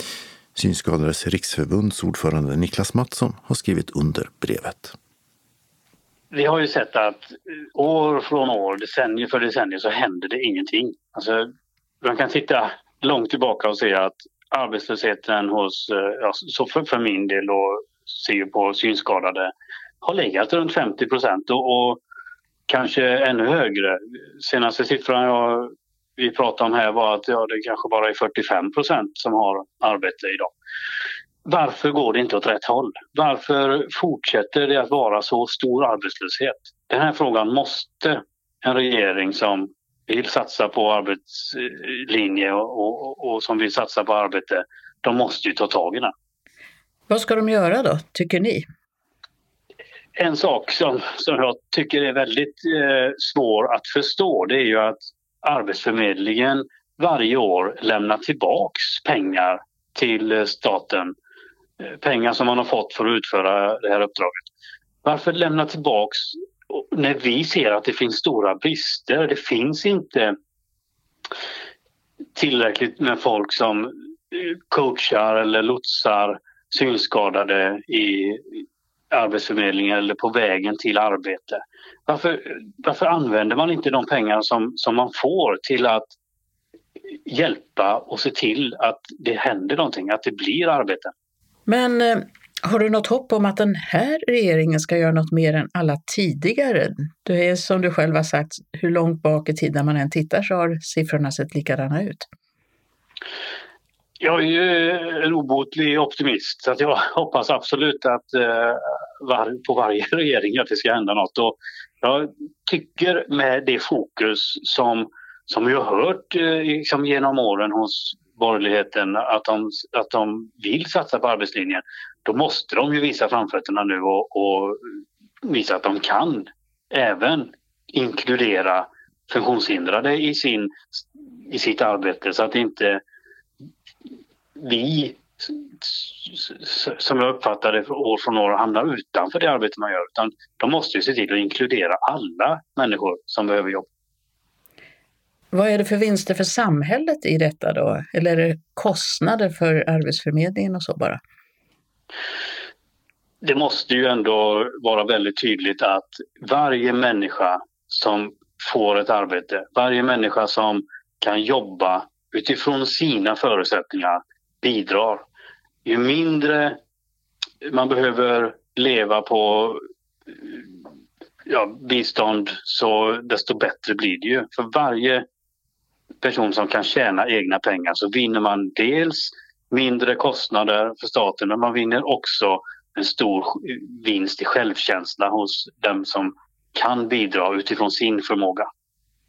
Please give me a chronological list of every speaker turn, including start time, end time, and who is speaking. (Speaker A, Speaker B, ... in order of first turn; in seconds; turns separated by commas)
Speaker A: 0.6-5.0, Speaker B: 6.3-11.5, Speaker B: 12.0-22.0, Speaker B: 22.7-30.5, Speaker B: 31.5-46.1, Speaker C: 47.1-48.7, Speaker B: 50.2-61.1, Speaker B: 61.8-64.5, Speaker B: 65.0-70.3, Speaker B: 72.3-86.1, Speaker B: 87.3-91.1, Speaker C: 91.7-102.3, Speaker B: 104.2-124.8, Speaker B: 125.4-133.0, Speaker B: 134.6-143.9, Speaker C: 145.5-151.2, Speaker B: 153.4-165.2, Speaker B: 165.8-166.8, Speaker B: 167.6-169.8, Speaker B: 171.5-175.2, Speaker B: 176.2-188.7